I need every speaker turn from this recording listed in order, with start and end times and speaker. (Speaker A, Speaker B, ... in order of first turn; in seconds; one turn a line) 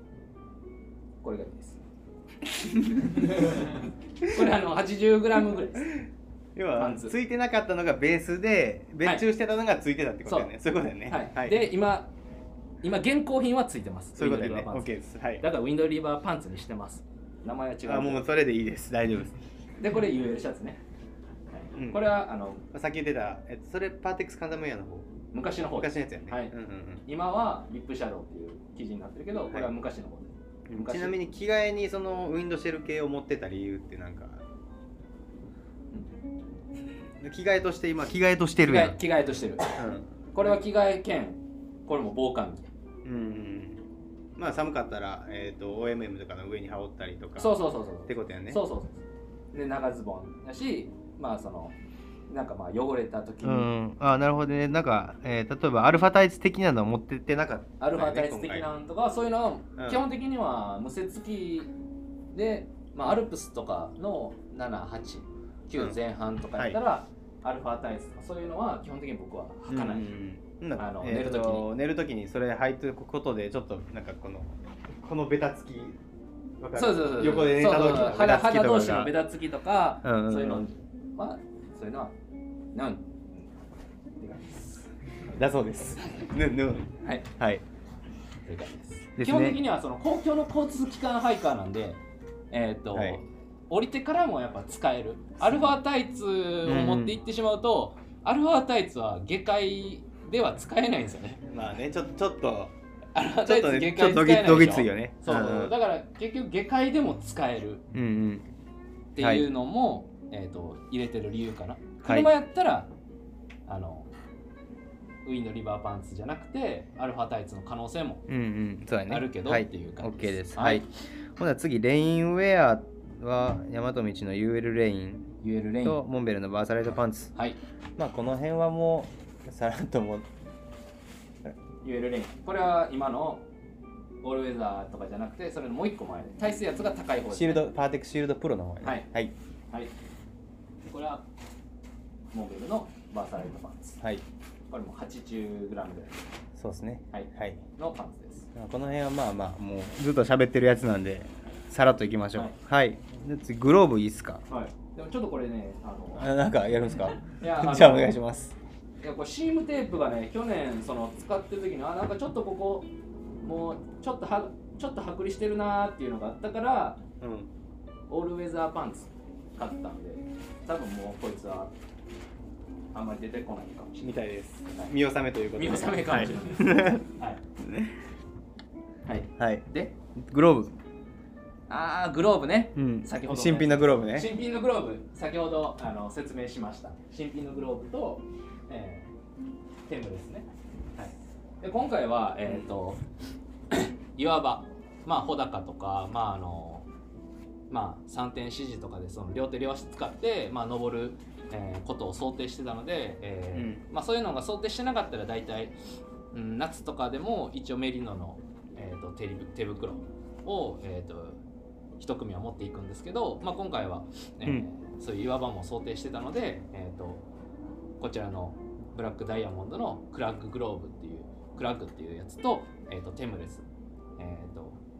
Speaker A: 1.2-1.8
Speaker A: 3.0-5.9
Speaker B: 5.8-11.7
Speaker A: 6.8-7.1
Speaker A: 10.3-10.5
Speaker A: 11.1-12.1
Speaker A: 12.8-14.9
Speaker B: 14.2-15.4
Speaker A: 15.4-18.3
Speaker B: 17.8-19.4
Speaker A: 19.8-20.8
Speaker A: 21.5-22.6
Speaker B: 21.8-22.0
Speaker B: 22.7-25.1
Speaker A: 25.3-26.5
Speaker B: 25.6-27.0
Speaker A: 27.1-31.2
Speaker B: 30.7-34.4
Speaker B: 37.2-39.0
Speaker A: 38.6-39.8
Speaker B: 39.8-40.6
Speaker A: 40.3-42.7
Speaker B: 43.0-43.8
Speaker B: 44.4-48.6
Speaker A: 47.4-49.0
Speaker A: 49.5-51.8
Speaker A: 52.3-53.7
Speaker B: 53.4-58.7
Speaker A: 57.8-61.7
Speaker B: 59.8-60.0
Speaker A: 62.3-70.1
Speaker B: 69.7-76.0
Speaker A: 70.8-71.7
Speaker B: 76.6-79.1
Speaker A: 76.8-82.1
Speaker B: 80.0-80.7
Speaker A: 82.7-83.5
Speaker A: 84.2-84.8
Speaker B: 85.3-87.6
Speaker A: 86.0-86.3
Speaker A: 87.0-87.3
Speaker A: 88.5-92.0
Speaker B: 89.2-89.6
Speaker A: 92.5-101.4
Speaker B: 92.9-93.2
Speaker B: 96.7-97.2
Speaker B: 101.5-102.7
Speaker A: 103.2-107.8
Speaker B: 103.4-105.7
Speaker B: 107.9-108.5
Speaker A: 109.2-112.9
Speaker B: 109.2-109.5
Speaker B: 112.0-112.3
Speaker A: 113.7-114.1
Speaker A: 115.2-118.3
Speaker B: 118.3-125.3
Speaker A: 119.1-120.9
Speaker A: 125.4-126.0
Speaker B: 125.8-127.3
Speaker B: 128.0-130.3
Speaker A: 131.8-133.4
Speaker A: 134.2-137.7
Speaker B: 137.3-139.3
Speaker A: 138.8-139.1
Speaker A: 140.8-141.3
Speaker A: 142.3-144.0
Speaker A: 144.7-146.2
Speaker B: 146.6-147.6
Speaker A: 147.1-148.5
Speaker B: 148.6-154.4
Speaker A: 154.5-156.3
Speaker B: 156.2-158.6
Speaker A: 157.3-158.2
Speaker A: 159.0-162.9
Speaker A: 163.4-167.0
Speaker B: 167.2-167.5
Speaker A: 168.1-171.7
Speaker A: 172.9-174.2
Speaker B: 174.0-177.1
Speaker A: 175.6-177.4
Speaker B: 177.6-177.9
Speaker A: 179.1-179.9
Speaker B: 179.4-180.7
Speaker A: 181.7-189.1
Speaker B: 182.8-184.3
Speaker A: 189.9-190.5
Speaker A: 191.6-193.0
Speaker A: 193.7-196.9
Speaker A: 197.7-205.8
Speaker B: 203.5-203.8
Speaker A: 206.3-211.4
Speaker A: 212.0-217.2
Speaker A: 218.0-223.7
Speaker A: 224.2-224.8